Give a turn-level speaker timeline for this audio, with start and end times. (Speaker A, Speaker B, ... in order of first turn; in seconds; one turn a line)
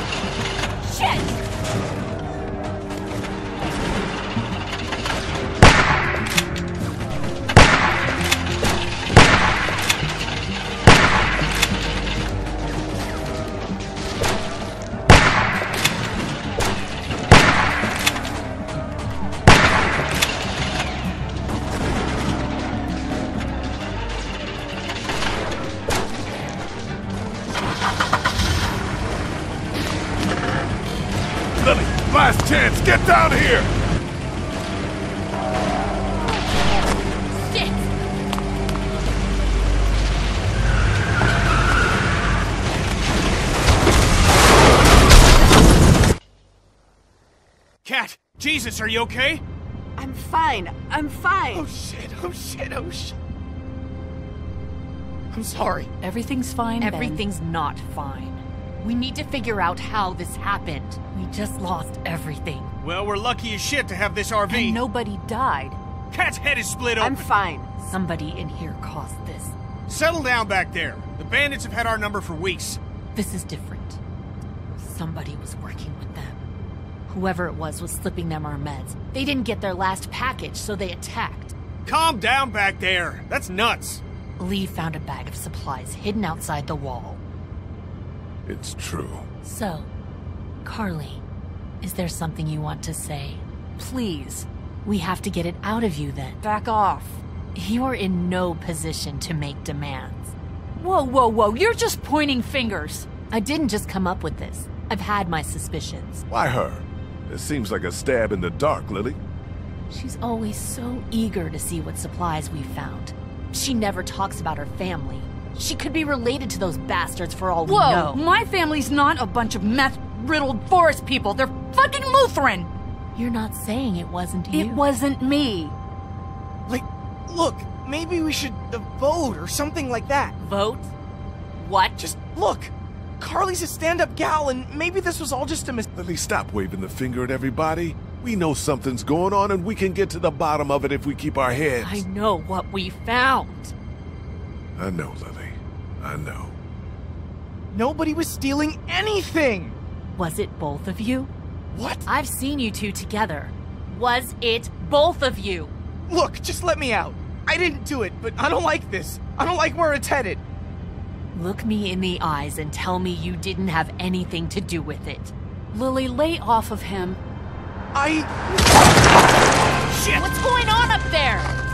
Speaker A: 0.9-1.3
Speaker B: 31.6-33.7
Speaker C: 37.3-37.9
Speaker D: 47.8-49.4
Speaker E: 50.0-51.7
Speaker F: 51.5-53.2
Speaker F: 55.3-55.9
Speaker A: 56.0-57.2
Speaker C: 56.8-62.7
Speaker D: 62.8-64.8
Speaker A: 64.5-65.8
Speaker D: 66.1-67.3
Speaker E: 67.0-67.7
Speaker C: 67.8-69.5
Speaker D: 69.9-72.8
Speaker C: 73.1-74.0
Speaker C: 74.7-76.5
Speaker C: 77.1-81.5
Speaker D: 81.8-84.0
Speaker C: 84.4-87.2
Speaker B: 88.5-89.3
Speaker C: 89.4-89.9
Speaker C: 90.6-91.2
Speaker C: 91.8-93.4
Speaker A: 93.8-94.5
Speaker C: 94.8-96.4
Speaker A: 96.4-97.2
Speaker C: 97.5-100.3
Speaker A: 100.8-103.1
Speaker C: 103.3-106.2
Speaker B: 106.3-109.2
Speaker C: 109.9-118.2
Speaker A: 117.6-122.7
Speaker C: 123.2-124.8
Speaker A: 124.5-125.8
Speaker F: 126.7-130.3
Speaker C: 130.4-130.9
Speaker C: 131.6-132.0
Speaker F: 132.0-135.8
Speaker B: 135.9-142.1
Speaker C: 141.8-143.7
Speaker B: 144.8-146.6
Speaker F: 147.7-149.8
Speaker C: 150.1-151.3
Speaker F: 151.7-152.0
Speaker C: 152.1-155.7
Speaker F: 156.1-160.4
Speaker C: 161.3-165.3
Speaker A: 165.7-167.2
Speaker F: 167.9-168.3
Speaker D: 169.9-170.3
Speaker C: 170.1-171.5